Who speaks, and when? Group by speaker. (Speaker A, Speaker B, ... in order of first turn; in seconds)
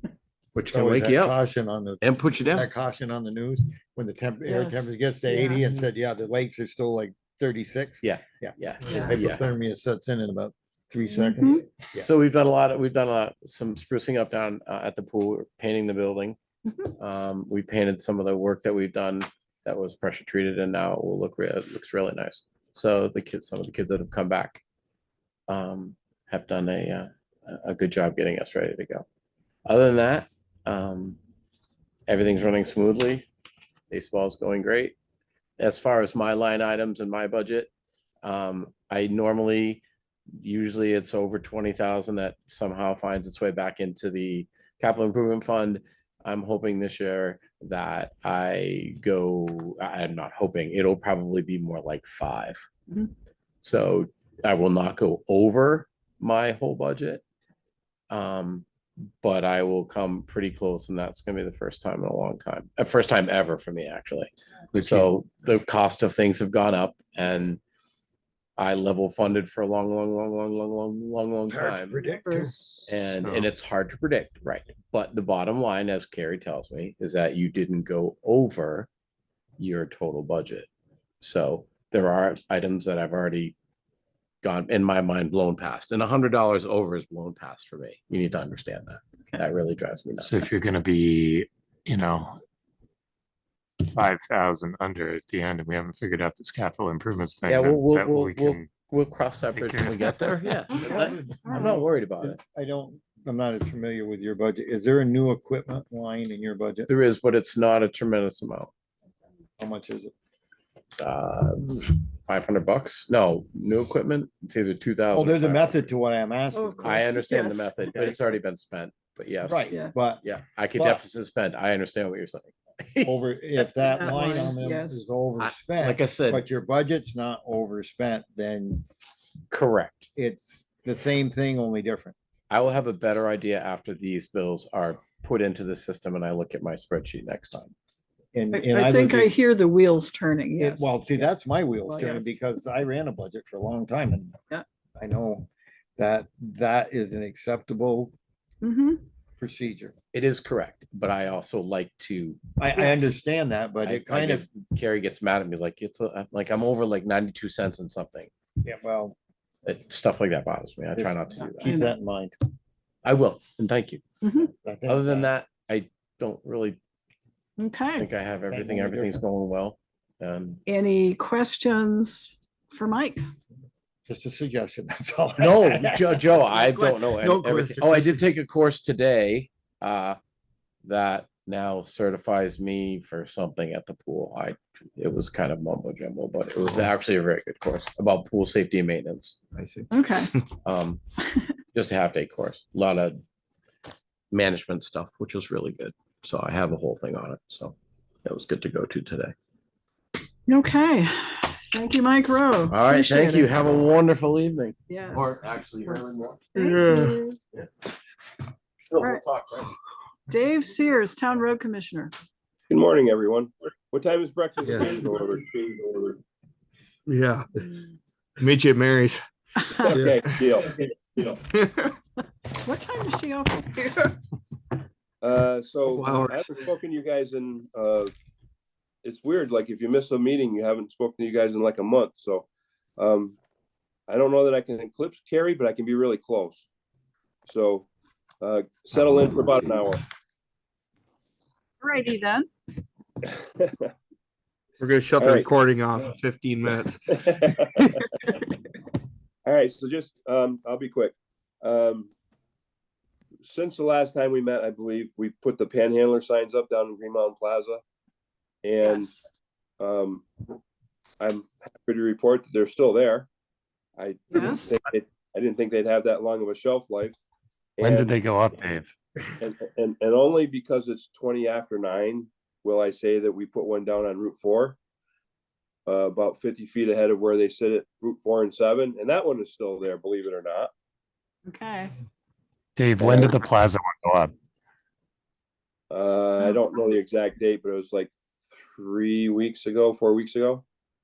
Speaker A: 0.5-1.4, 2.0-2.7, 8.0-9.4, 12.0-16.4, 17.0-24.6, 25.5-29.1, 29.6-31.2, 32.1-33.3, 33.9-35.0, 35.6-37.7, 38.2-39.8, 40.4-52.6, 53.6-57.2, 58.1-58.7, 59.2-67.6, 68.6-72.0, 72.8-78.9, 79.6-80.7, 81.2-83.5, 84.4-90.5, 97.5-102.4, 106.9-108.7, 111.0-115.9, 116.8-123.1, 125.4-126.4, 129.5-130.1, 132.5-137.7, 150.1-152.4, 153.8-158.3, 159.6-161.7, 163.0-164.0, 164.9-166.8, 168.0-170.6, 175.4-180.2, 180.8-189.4, 190.6-191.0, 191.7-193.2, 194.3-199.3, 202.7-206.4, 208.9-209.7
Speaker B: 0.7-12.1, 71.5-72.6, 100.8-106.9, 109.6-110.1, 115.1-117.1, 119.4-120.2, 120.8-121.0, 123.0-128.8, 130.2-132.1, 138.3-139.3, 140.6-144.3, 145.0-148.1, 149.4-149.9, 152.6-154.5, 158.6-159.2, 160.9-162.3, 164.5-165.3, 168.5-169.2, 174.1-178.3, 189.5-189.9, 214.6-215.3
Speaker C: 4.5-5.6, 11.1-11.6, 72.0-73.0, 101.4-101.8, 116.5-117.8, 123.8-125.0, 138.5-141.3, 141.9-142.4, 148.6-149.0, 152.8-153.1, 161.6-161.9, 164.2-164.5, 167.6-168.1, 170.7-173.2, 189.9-190.4, 200.5-203.5, 204.9-207.4, 210.3-212.1, 219.6-220.0, 222.5-224.1, 241.8-242.5, 258.8-259.1, 264.3-264.7, 281.5-281.9
Speaker D: 64.7-65.1, 73.1-73.5, 90.2-92.4, 93.8-98.7, 99.5-100.4, 267.8-268.9, 282.8-284.3
Speaker E: 206.6-207.2, 217.1-217.6, 218.4-219.2, 219.9-220.4, 221.5-221.9, 225.8-226.7, 244.8-248.0
Speaker F: 212.7-216.2, 219.8-221.4, 225.2-228.1, 229.0-232.5, 233.0-233.4, 234.1-236.7, 237.5-237.9, 238.4-240.0, 243.3-243.9, 245.2-245.5, 247.1-247.7, 249.4-252.1, 253.4-257.8, 258.6-259.1, 259.8-260.2, 261.2-263.3, 264.0-267.1, 267.8-268.2, 269.4-274.8, 275.9-280.7, 283.0-283.3, 285.9-290.6